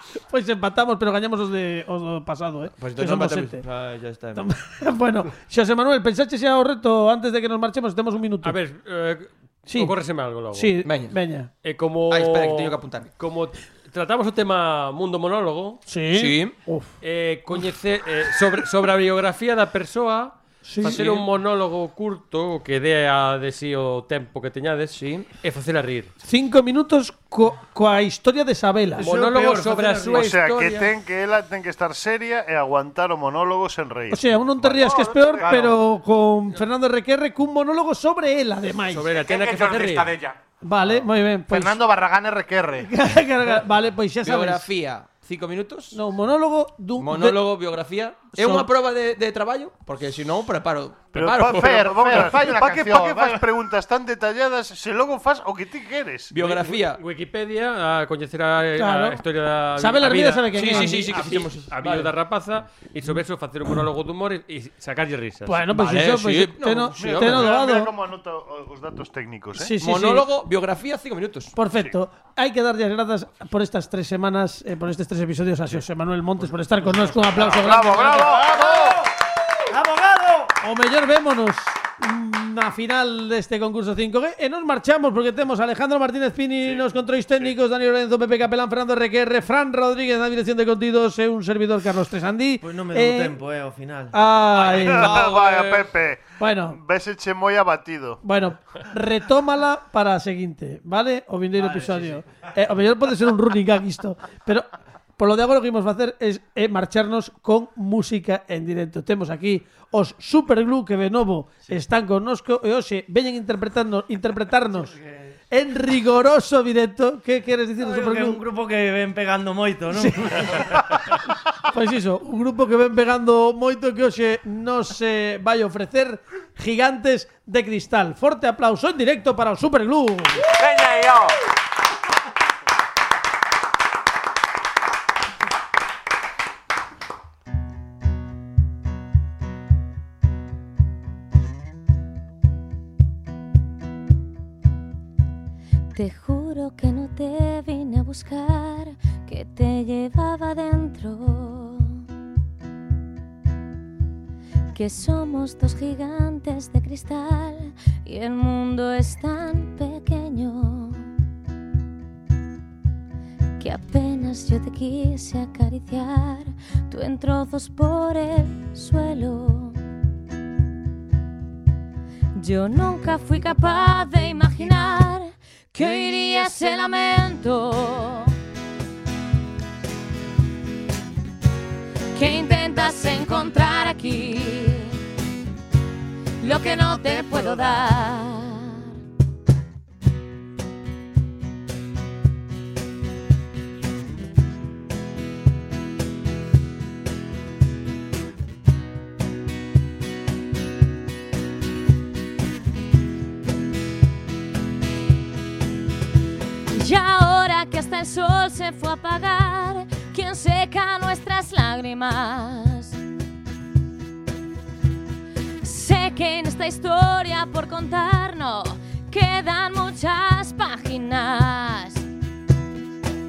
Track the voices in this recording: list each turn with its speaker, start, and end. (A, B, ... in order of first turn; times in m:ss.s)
0:00.3-0:03.6 A
0:02.8-0:03.6 B
0:03.6-0:04.4 C
0:04.4-0:08.6 A
0:08.4-0:10.8 D
0:09.7-0:09.9 A
0:10.5-0:11.5 A
0:10.8-0:11.1 B
0:11.6-0:15.8 D
0:12.1-0:13.1 B
0:15.9-0:16.9 A
0:16.1-0:16.6 B
0:17.0-0:26.1 D
0:20.6-0:21.0 A
0:20.8-0:21.3 B
0:24.9-0:25.3 B
0:26.2-0:29.1 A
0:29.0-0:30.3 C
0:29.0-0:30.9 D
0:30.1-0:35.0 E
0:34.1-0:39.1 A
0:34.8-0:35.7 F
0:35.4-0:35.8 C
0:38.9-0:40.2 D
0:39.1-0:40.4 F
0:40.6-0:41.8 A
0:41.5-0:42.9 G
0:42.8-0:44.6 A
0:44.2-0:46.0 B
0:45.9-0:47.4 A
0:47.0-0:52.3 B
0:48.4-0:48.7 A
0:51.1-0:56.4 E
0:51.6-0:53.5 G
0:56.3-0:57.0 B
0:56.5-1:05.7 D
0:58.8-0:59.2 A
0:59.8-1:01.3 A
1:00.5-1:02.1 B
1:05.4-1:07.9 A
1:05.7-1:07.5 B
1:07.0-1:09.8 E
1:09.6-1:10.3 A
1:09.8-1:11.6 B
1:11.6-1:18.5 A
1:17.3-1:18.8 E
1:18.1-1:20.6 C
1:18.6-1:19.0 B
1:20.6-1:33.4 A
1:26.7-1:27.5 E
1:32.6-1:34.2 C
1:34.1-1:35.3 A
1:34.6-1:35.9 B
1:34.7-1:38.2 E
1:36.4-1:36.8 A
1:38.2-1:44.7 A
1:41.6-1:42.2 C
1:45.2-1:54.9 A
1:54.8-1:55.3 C
1:55.5-1:58.4 A
1:57.8-2:00.8 C
1:59.9-2:00.9 A
2:01.7-2:10.5 A
2:10.5-2:11.4 F
2:26.0-2:32.0 H
2:34.7-2:41.1 H
2:43.6-2:49.8 H
2:52.4-2:58.3 H
3:02.2-3:05.0 H
3:06.4-3:08.9 H
3:26.7-3:33.0 H
3:35.6-3:42.0 H